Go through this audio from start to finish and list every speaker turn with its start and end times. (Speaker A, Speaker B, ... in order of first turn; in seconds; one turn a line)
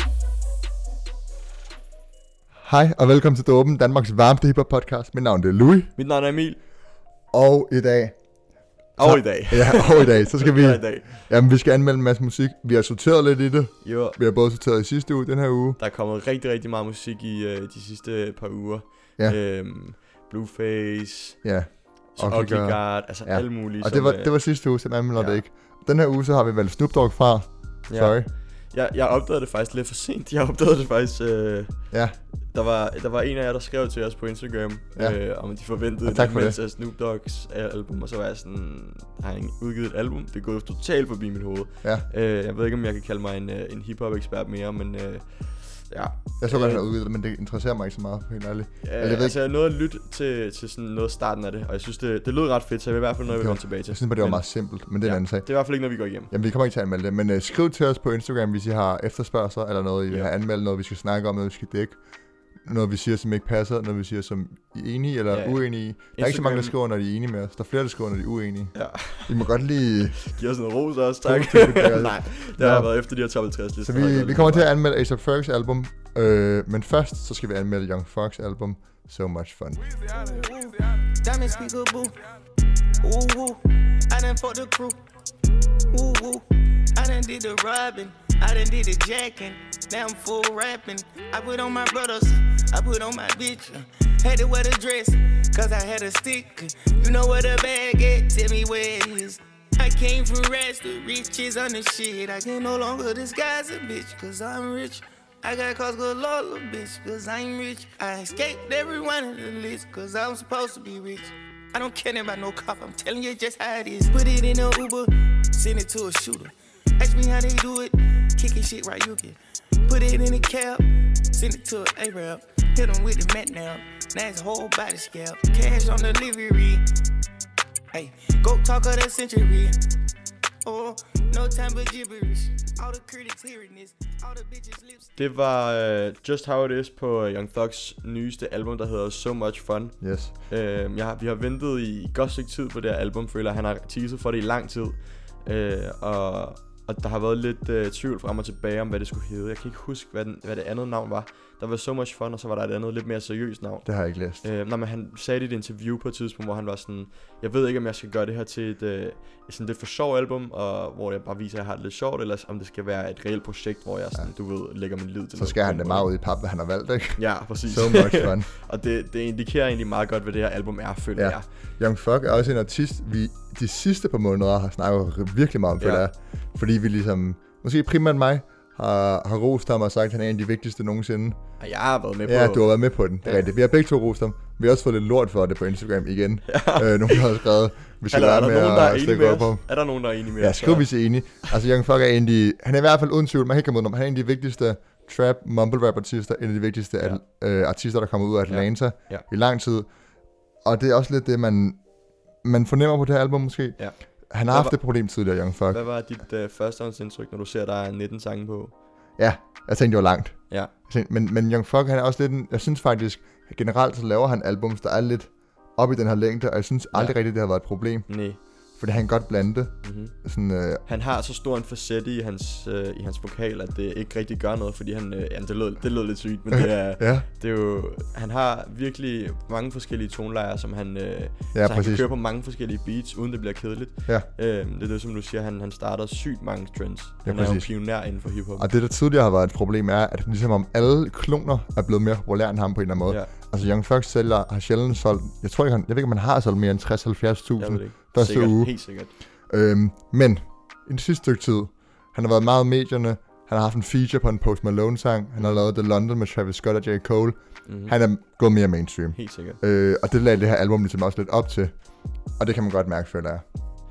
Speaker A: 2.6-5.9
Speaker B: 6.0-6.6
Speaker A: 7.3-8.2
Speaker B: 8.9-11.2
Speaker A: 9.0-15.8
Speaker B: 13.8-14.2
Speaker B: 15.8-21.4
Speaker A: 21.4-28.3
Speaker B: 22.1-24.4
Speaker B: 25.1-25.4
Speaker B: 27.9-46.8
Speaker A: 31.9-32.2
Speaker A: 36.0-36.6
Speaker A: 46.4-49.4
Speaker B: 48.8-56.3
Speaker A: 53.3-55.5
Speaker A: 56.3-62.0
Speaker A: 62.6-70.2
Speaker B: 65.3-66.7
Speaker B: 68.7-74.7
Speaker A: 71.2-72.9
Speaker A: 73.8-79.8
Speaker C: 80.1-82.2
Speaker C: 83.0-85.0
Speaker C: 85.9-126.8
Speaker C: 127.9-129.7
Speaker C: 130.6-135.1
Speaker B: 135.2-166.1
Speaker A: 140.0-140.3
Speaker A: 153.8-154.4
Speaker A: 165.3-168.5
Speaker B: 167.2-171.4
Speaker A: 171.2-181.4
Speaker B: 175.8-176.1
Speaker B: 181.6-183.5
Speaker A: 182.2-189.8
Speaker B: 186.5-187.4
Speaker B: 188.1-190.9
Speaker A: 190.4-199.9
Speaker B: 198.5-199.2
Speaker A: 200.6-201.8
Speaker A: 202.4-203.8
Speaker B: 203.8-204.8
Speaker A: 204.3-205.8
Speaker B: 205.7-208.7
Speaker A: 209.2-218.1
Speaker B: 216.9-217.2
Speaker B: 218.1-218.4
Speaker A: 218.8-220.8
Speaker B: 219.8-220.1
Speaker B: 220.8-238.7
Speaker A: 227.0-227.2
Speaker A: 231.5-232.0
Speaker A: 237.2-261.8
Speaker B: 243.1-243.3
Speaker B: 247.6-249.1
Speaker B: 255.4-255.6
Speaker B: 257.6-257.9
Speaker B: 259.1-259.6
Speaker A: 262.4-263.4